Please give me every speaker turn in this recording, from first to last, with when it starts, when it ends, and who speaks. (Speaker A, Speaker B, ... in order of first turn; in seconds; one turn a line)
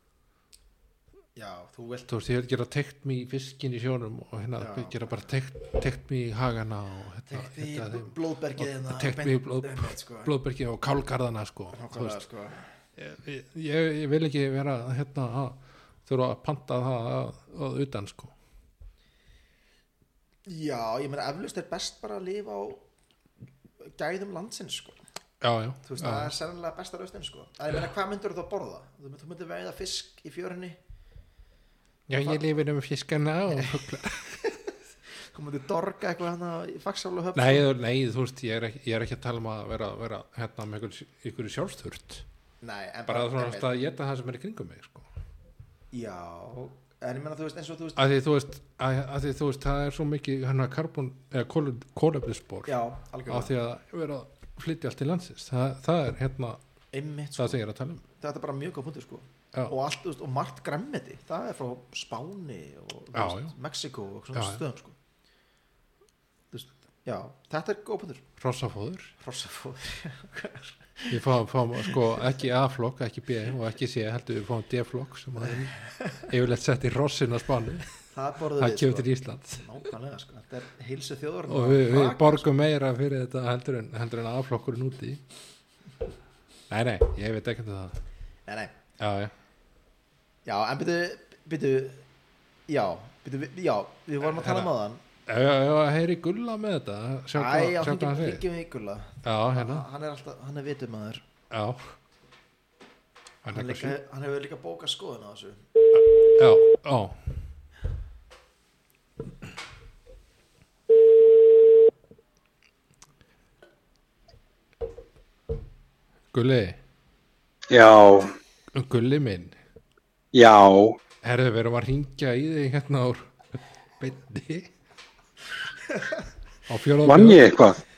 Speaker A: 1.4-2.1
Speaker B: 2.1-12.2
Speaker A: 4.6-5.2
Speaker A: 7.3-10.3
Speaker A: 11.7-12.7
Speaker B: 13.0-18.3
Speaker A: 20.5-22.8
Speaker A: 23.9-25.0
Speaker B: 25.4-26.4
Speaker A: 25.8-30.8
Speaker B: 32.1-34.4
Speaker A: 33.6-33.8
Speaker A: 35.3-37.7
Speaker B: 37.4-42.2
Speaker A: 42.6-43.7
Speaker B: 43.1-45.1
Speaker A: 45.9-48.0
Speaker B: 48.0-52.7
Speaker A: 52.7-53.5
Speaker B: 53.3-56.6
Speaker A: 56.9-57.6
Speaker B: 57.4-58.0
Speaker A: 58.1-65.0
Speaker B: 63.1-63.5
Speaker B: 64.3-64.6
Speaker A: 66.5-68.3
Speaker B: 68.4-69.1
Speaker A: 69.2-71.2
Speaker B: 71.1-77.9
Speaker A: 78.1-82.5
Speaker B: 78.6-79.6
Speaker B: 81.5-85.2
Speaker B: 86.7-88.0
Speaker A: 88.5-88.7
Speaker B: 89.0-89.3
Speaker A: 90.5-92.0
Speaker A: 92.7-95.0
Speaker B: 94.2-94.7
Speaker B: 95.3-98.4
Speaker A: 97.3-101.2
Speaker B: 99.2-99.8
Speaker B: 101.5-101.9
Speaker B: 103.4-104.0
Speaker A: 103.5-105.7
Speaker B: 106.3-107.2
Speaker B: 116.3-116.8
Speaker C: 117.7-118.3
Speaker B: 118.7-119.6
Speaker C: 120.3-121.0
Speaker B: 121.2-123.3
Speaker B: 124.0-124.7
Speaker B: 126.7-127.5
Speaker C: 127.0-127.8